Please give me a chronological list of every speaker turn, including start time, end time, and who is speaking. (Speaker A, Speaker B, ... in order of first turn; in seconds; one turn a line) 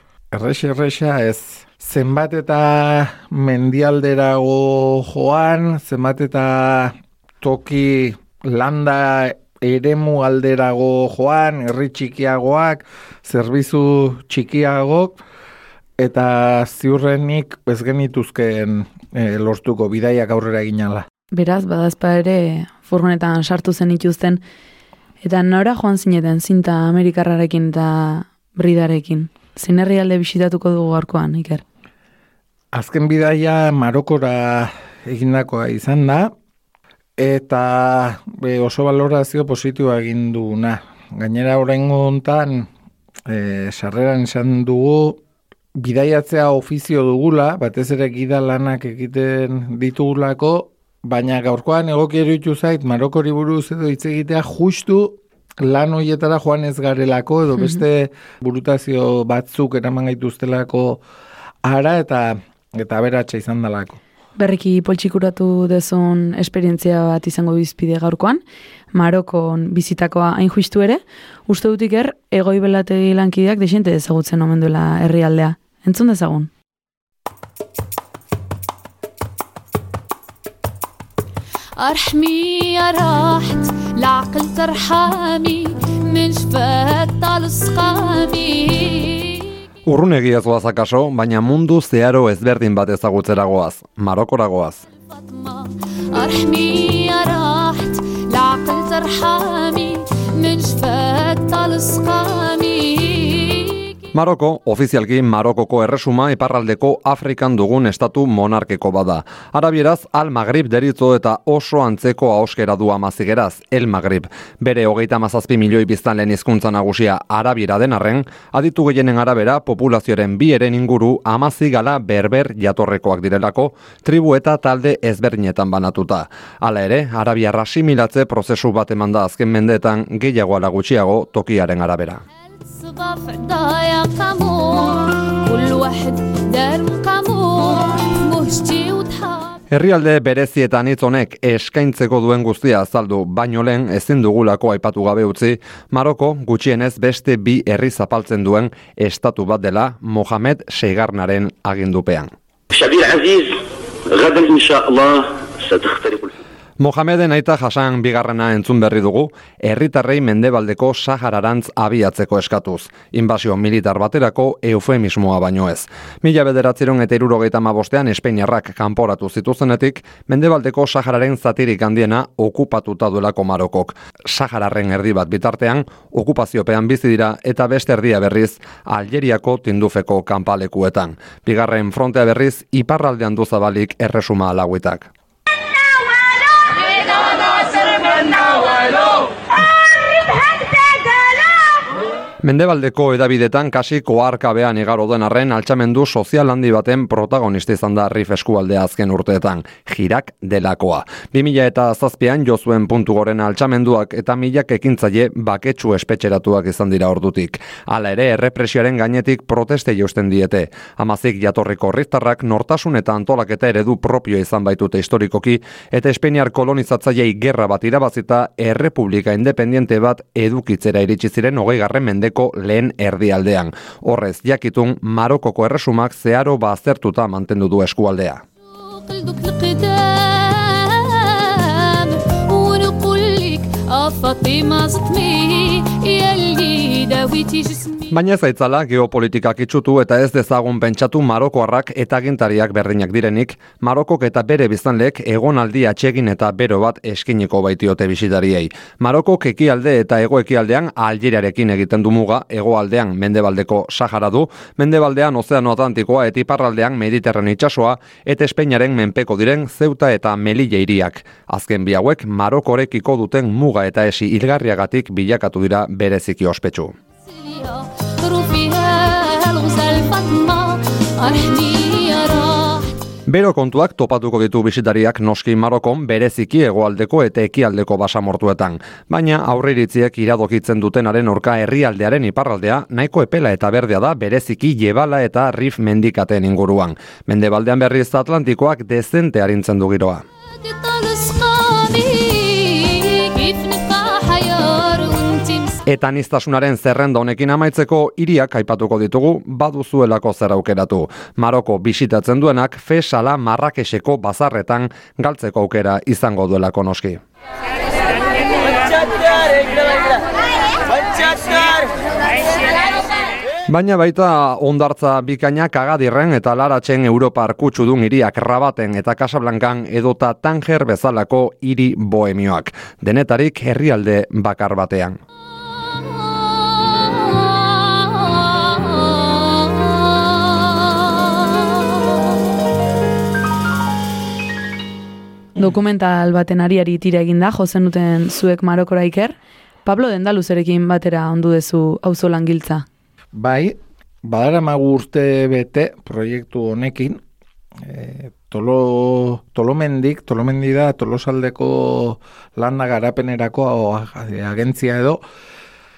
Speaker A: 0.3-15.2
Speaker A: 16.0-21.1
Speaker B: 21.3-24.4
Speaker B: 25.2-31.6
Speaker A: 32.7-36.3
Speaker A: 37.2-42.7
Speaker A: 43.3-45.2
Speaker A: 45.8-61.0
Speaker A: 61.6-64.0
Speaker B: 64.4-76.5
Speaker C: 81.8-89.5
Speaker D: 89.9-94.8
Speaker C: 95.0-104.0
Speaker D: 104.1-132.2
Speaker C: 132.6-139.6
Speaker D: 139.7-152.3
Speaker E: 152.7-156.3
Speaker D: 156.8-185.1
Speaker D: 192.4-228.4
Speaker C: 228.7-238.1
Speaker D: 238.1-266.9
Speaker C: 267.3-272.9
Speaker D: 273.3-290.2
Speaker C: 290.5-295.8
Speaker D: 295.9-307.2
Speaker D: 313.7-325.2
Speaker C: 326.8-330.8
Speaker B: 335.6-342.9
Speaker A: 343.3-347.2
Speaker A: 347.8-355.2